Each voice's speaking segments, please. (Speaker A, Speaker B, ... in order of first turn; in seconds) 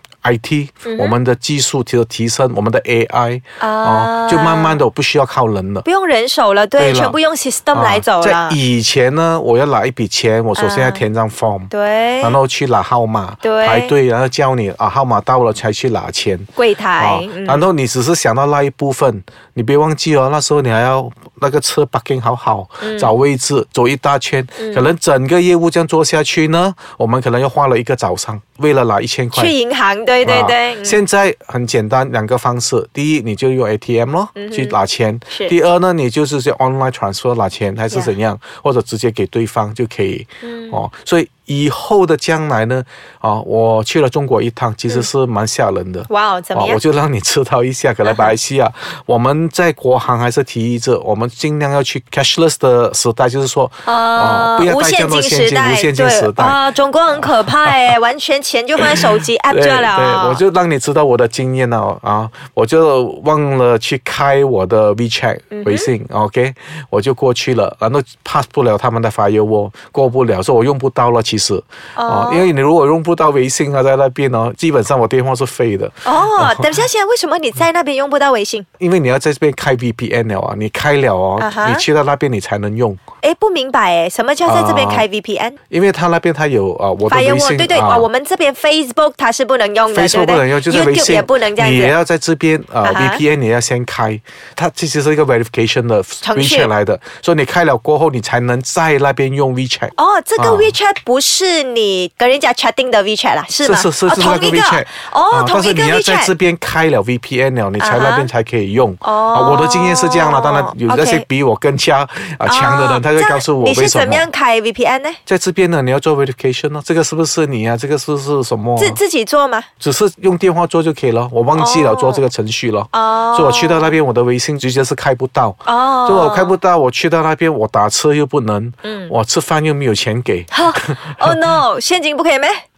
Speaker A: 0.2-5.9, 6.8-7.2, 7.7-11.7, 12.2-29.5, 30.2-56.6, 59.0-76.7, 78.8-83.0, 84.5-85.0, 85.7-88.1, 89.9-100.7, 103.6-114.3, 115.3-119.0, 119.8-131.4
Speaker B: 0.8-1.2, 3.6-4.8, 5.8-8.6, 10.6-11.1, 11.7-12.4, 13.4-13.9, 16.6-17.7, 22.8-23.1, 24.6-24.9, 29.3-31.0, 34.4-34.8, 40.4-40.8, 46.1-46.8, 48.0-48.3, 53.9-60.4, 65.5-65.9, 72.0-72.5, 76.0-78.7, 81.4-81.9, 83.2-85.6, 87.1-92.0, 92.8-93.2, 96.2-96.7, 100.0-106.3, 107.8-108.3, 109.0-111.2, 112.5-115.2, 118.8-119.7, 121.6-122.2, 122.9-124.0, 125.7-126.5, 128.8-129.1, 130.5-132.6